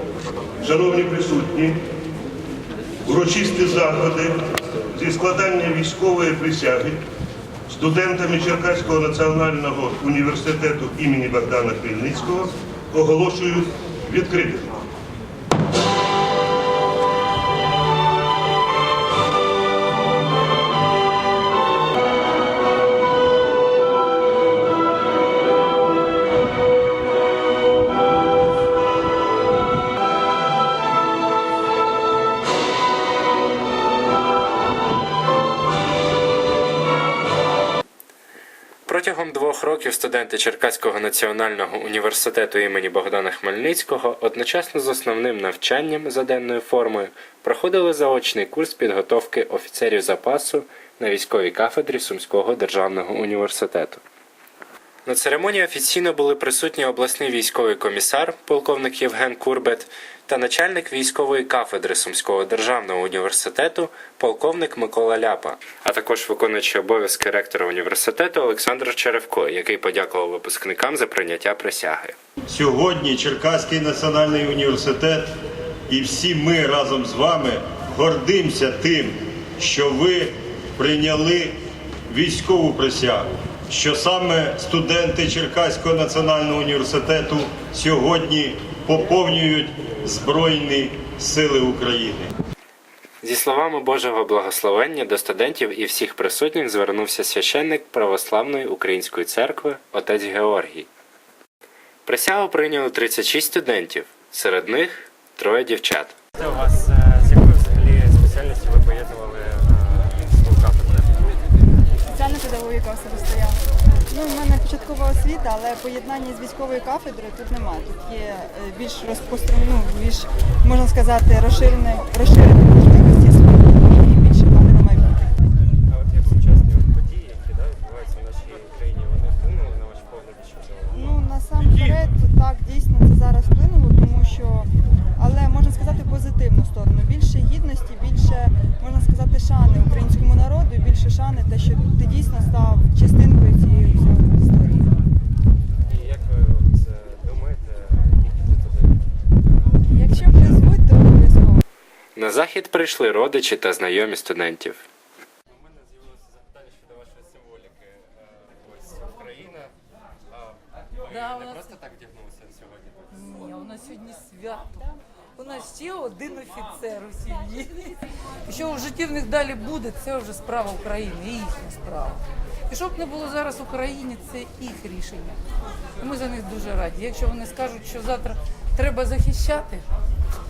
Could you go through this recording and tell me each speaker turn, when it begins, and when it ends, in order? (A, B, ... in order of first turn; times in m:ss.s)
0:00.6-0:01.8 A
0:03.0-0:04.4 A
0:04.9-0:07.0 A
0:07.7-0:14.7 A
0:38.8-0:54.0 B
0:55.0-1:12.2 B
1:12.5-1:32.3 C
1:33.2-1:40.9 B
1:42.0-1:46.1 B
1:46.3-1:51.1 D
1:52.0-2:05.3 E
2:05.9-2:11.1 D
2:10.9-2:24.9 E
2:25.9-2:29.0 D
2:29.9-2:31.6 E
2:32.2-2:34.8 B
2:35.5-2:39.7 D
2:40.3-2:43.1 D
2:41.1-2:41.7 F
2:43.1-2:55.4 F
2:56.0-2:59.8 F